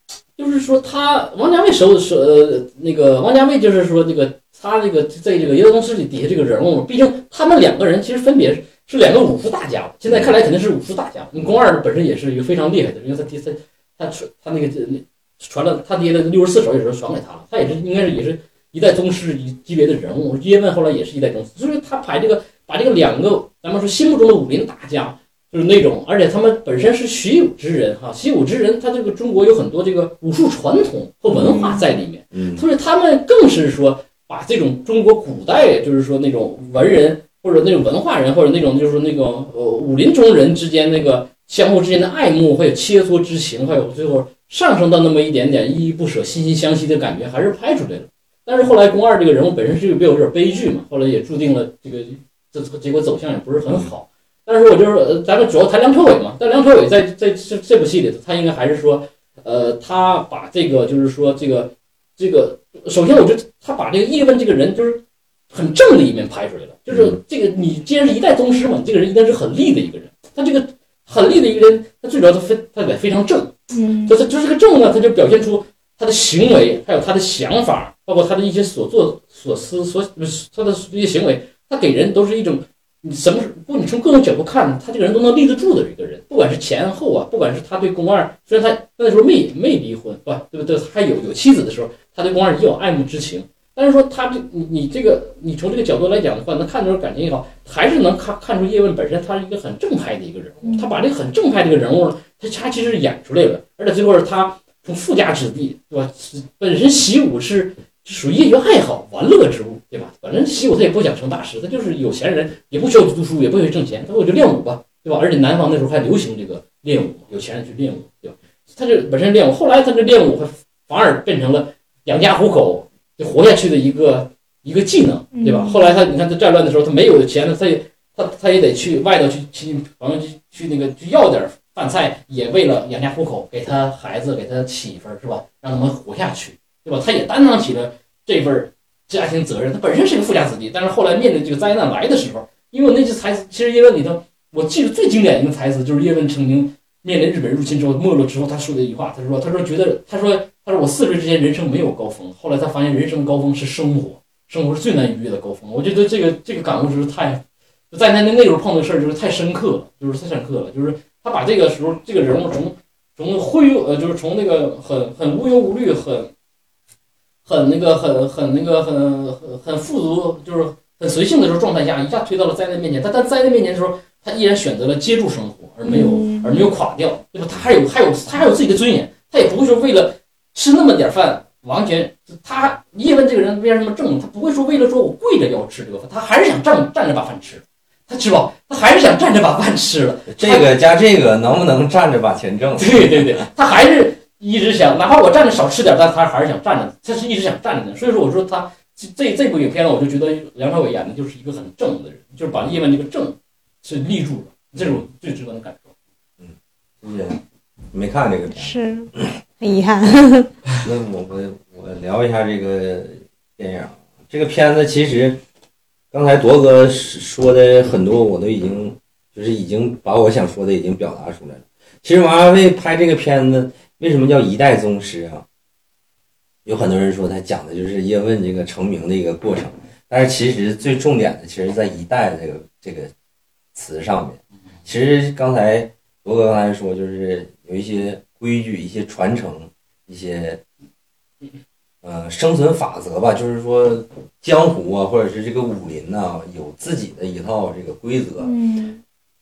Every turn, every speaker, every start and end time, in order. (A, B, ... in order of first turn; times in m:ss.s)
0:00.4-1:13.5 A
0:10.1-0:10.3 B
0:31.3-0:31.7 B
0:32.3-0:32.7 B
1:06.9-1:07.2 B
1:13.7-1:14.2 C
1:14.0-2:46.3 A
1:40.6-1:40.9 C
2:05.3-2:05.9 C
2:47.4-3:10.7 A
2:55.8-2:56.6 C
3:10.3-3:13.5 B
3:12.8-3:25.9 A
3:26.4-3:29.4 B
3:28.5-3:30.5 C
3:30.8-3:35.4 B
3:36.1-3:45.4 B
3:46.6-3:53.1 B
3:53.7-4:00.6 B
4:02.0-4:08.5 B
4:08.4-4:09.0 C